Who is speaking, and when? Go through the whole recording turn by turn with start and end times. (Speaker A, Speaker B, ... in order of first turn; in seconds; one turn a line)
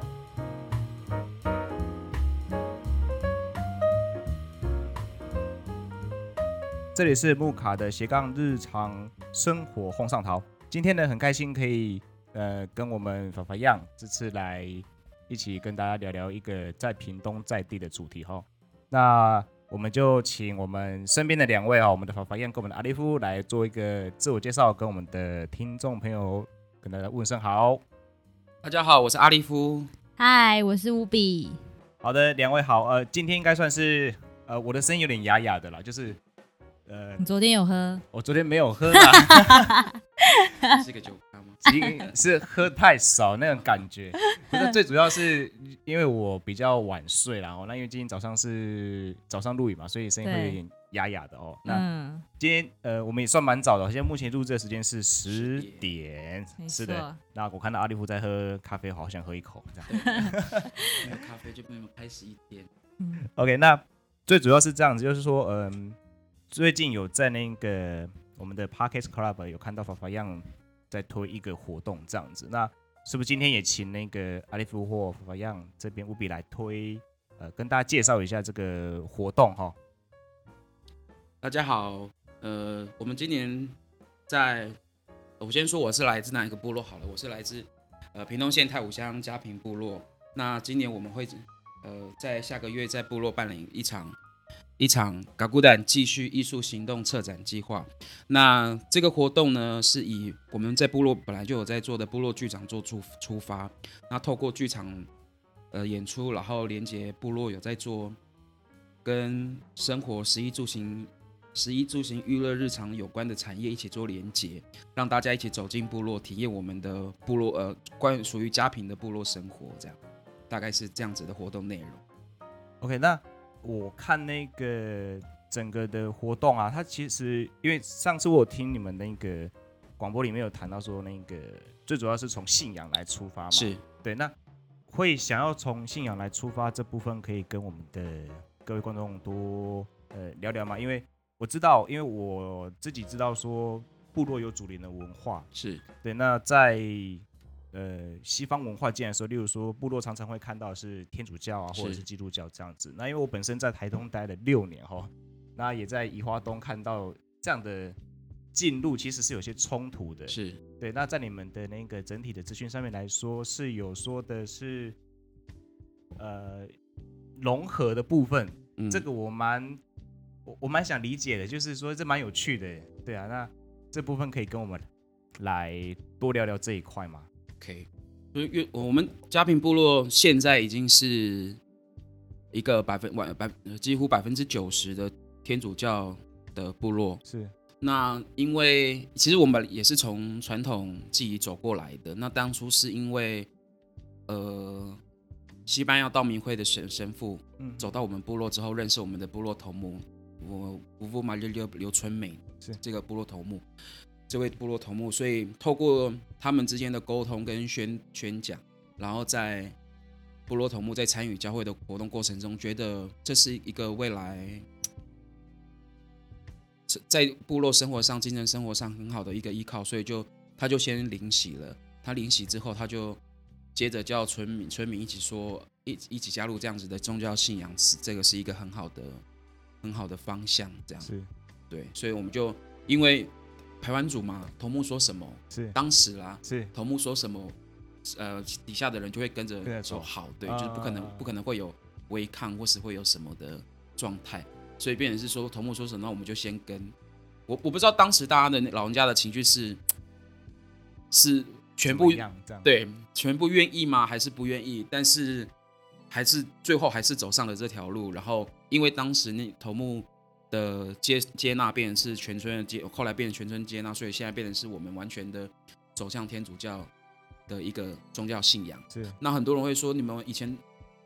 Speaker A: 7.0-27.8
Speaker B: 28.6-29.9
Speaker C: 30.2-31.6
Speaker A: 32.0-36.2
Speaker A: 36.9-37.2
Speaker C: 37.2-38.0
Speaker A: 38.1-39.9
Speaker C: 38.9-40.8
Speaker B: 40.7-41.6
Speaker A: 41.6-51.9
Speaker C: 41.7-42.0
Speaker C: 44.3-44.7
Speaker C: 50.2-50.6
Speaker C: 51.7-52.2
Speaker A: 52.4-60.7
Speaker B: 55.3-55.9
Speaker C: 56.6-57.2
Speaker B: 59.9-60.3
Speaker C: 60.0-61.0
Speaker B: 61.0-62.7
Speaker A: 63.2-66.0
Speaker A: 66.5-79.8
Speaker B: 81.4-83.8
Speaker B: 84.3-84.8
Speaker B: 85.4-94.2
Speaker B: 94.8-105.1
Speaker B: 105.7-108.2
Speaker B: 109.0-120.0
Speaker B: 120.5-122.0
Speaker A: 122.8-134.3
Speaker B: 133.5-133.8
Speaker A: 134.9-145.5
Speaker B: 145.5-145.8
Speaker A: 146.0-158.0
Speaker B: 151.7-152.0
Speaker A: 158.5-165.0
Speaker B: 160.3-160.6
Speaker A: 166.2-166.7
Speaker A: 167.4-169.8
Speaker B: 168.8-169.0
Speaker A: 170.5-174.9
Speaker A: 175.4-177.3
Speaker B: 177.6-181.6
Speaker B: 182.5-187.2
Speaker A: 187.2-187.5
Speaker B: 187.8-193.5
Speaker B: 194.3-195.0
Speaker B: 195.7-203.7
Speaker A: 197.6-197.9
Speaker B: 204.3-209.8
Speaker B: 210.5-214.7
Speaker B: 216.9-223.2
Speaker B: 223.8-229.2
Speaker B: 229.8-231.1
Speaker A: 231.0-231.3
Speaker B: 231.7-246.9
Speaker A: 235.5-235.8
Speaker A: 236.4-236.7
Speaker A: 239.7-241.3
Speaker B: 247.5-249.8
Speaker B: 251.1-255.5
Speaker A: 251.8-252.7
Speaker B: 256.1-266.9
Speaker B: 267.5-270.6
Speaker A: 268.9-269.2